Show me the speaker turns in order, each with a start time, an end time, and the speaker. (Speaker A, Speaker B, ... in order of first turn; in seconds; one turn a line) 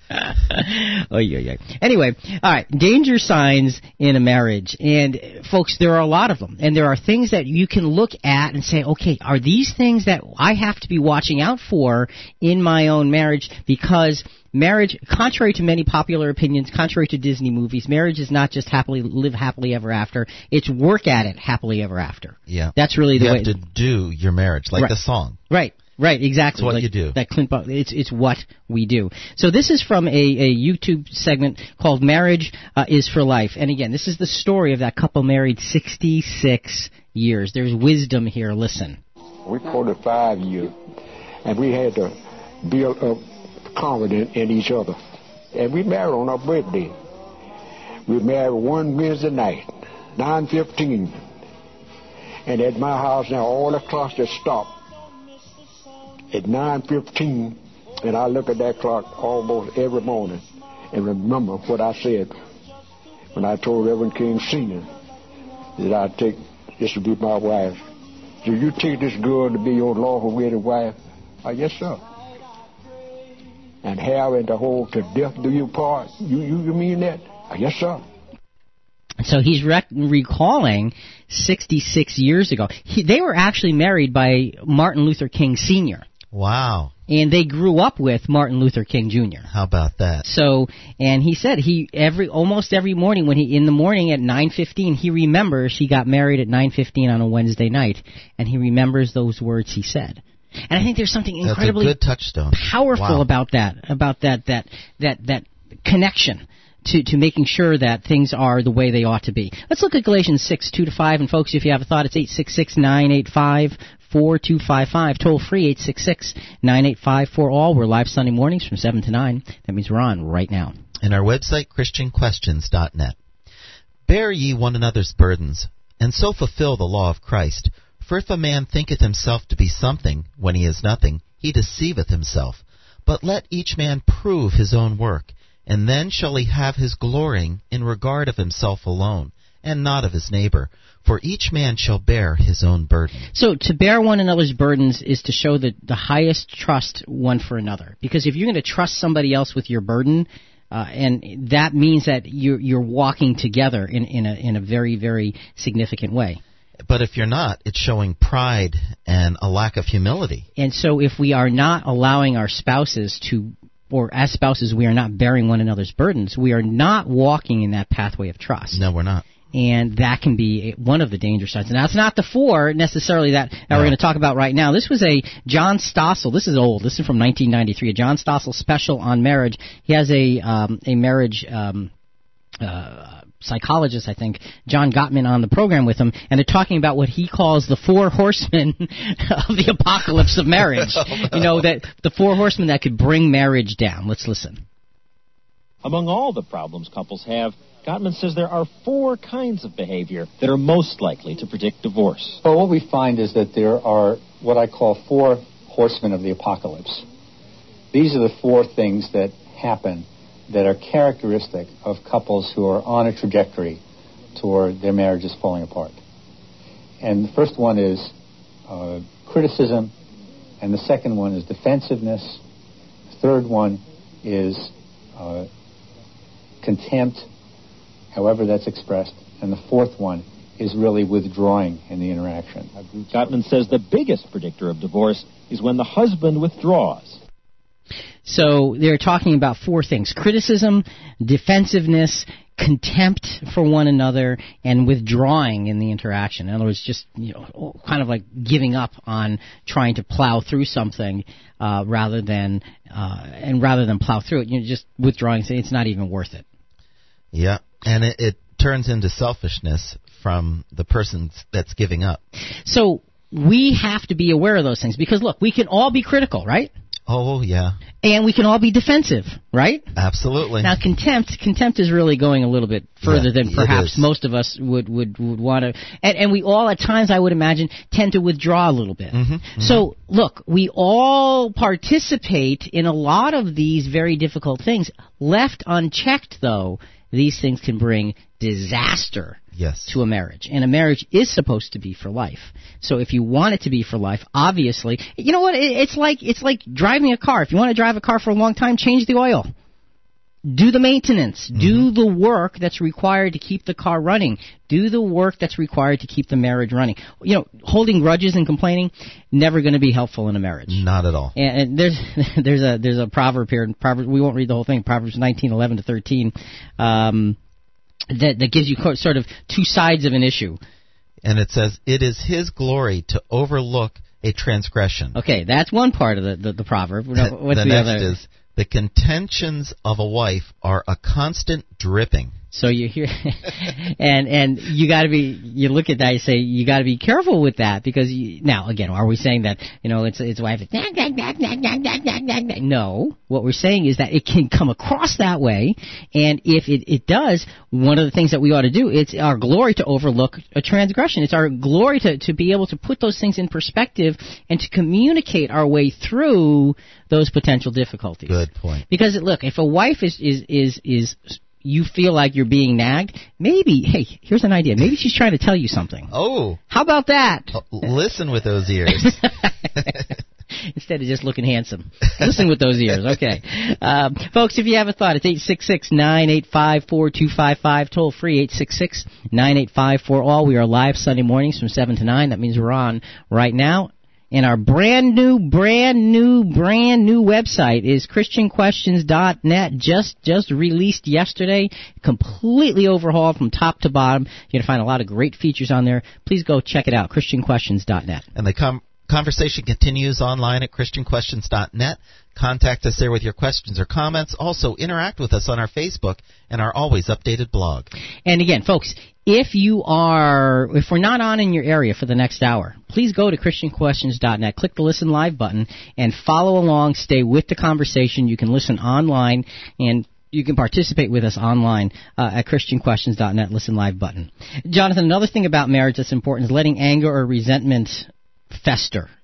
Speaker A: 0.1-23.5
Speaker B: 22.5-25.4
Speaker A: 25.5-39.0
Speaker B: 26.6-27.2
Speaker C: 39.5-40.8
Speaker C: 41.4-45.0
Speaker C: 45.5-46.9
Speaker C: 48.1-51.2
Speaker C: 52.5-54.7
Speaker C: 56.3-62.3
Speaker C: 63.3-64.9
Speaker C: 65.8-67.8
Speaker C: 68.4-72.0
Speaker C: 73.8-78.0
Speaker A: 79.2-86.0
Speaker B: 86.3-86.9
Speaker A: 87.1-89.5
Speaker B: 89.5-90.2
Speaker A: 90.2-101.9
Speaker B: 101.4-103.3
Speaker A: 102.5-120.8
Speaker B: 121.0-123.2
Speaker B: 124.0-143.3
Speaker A: 143.3-156.4
Speaker B: 156.8-160.5
Speaker A: 160.6-168.8
Speaker B: 168.7-169.2
Speaker A: 169.5-181.9
Speaker A: 182.6-194.6
Speaker B: 190.7-191.7
Speaker D: 195.8-202.4
Speaker E: 202.4-207.0
Speaker E: 207.9-213.8
Speaker E: 214.3-216.0
Speaker E: 217.0-218.1
Speaker E: 218.7-219.9
Speaker E: 220.6-222.4
Speaker E: 223.1-225.5
Speaker E: 226.6-227.3
Speaker E: 228.1-233.1
Speaker D: 233.1-237.2
Speaker A: 238.2-256.4
Speaker B: 257.3-262.2
Speaker A: 262.6-266.7
Speaker B: 267.1-267.8
Speaker A: 268.0-269.9
Speaker B: 269.9-270.8
Speaker A: 270.6-299.5
Speaker B: 273.0-274.0
Speaker B: 279.1-279.9
Speaker B: 289.5-290.0
Speaker A: 300.4-310.8
Speaker B: 301.5-301.9
Speaker B: 310.7-311.3
Speaker A: 311.4-317.4
Speaker A: 318.1-320.6
Speaker B: 321.2-325.1
Speaker A: 325.1-328.2
Speaker B: 327.1-332.3
Speaker A: 332.5-358.4
Speaker B: 358.3-358.8
Speaker A: 358.9-366.1
Speaker B: 366.1-366.6
Speaker A: 366.7-367.5
Speaker B: 367.5-369.2
Speaker A: 369.1-369.9
Speaker A: 370.6-398.2
Speaker B: 398.3-407.9
Speaker A: 408.2-429.1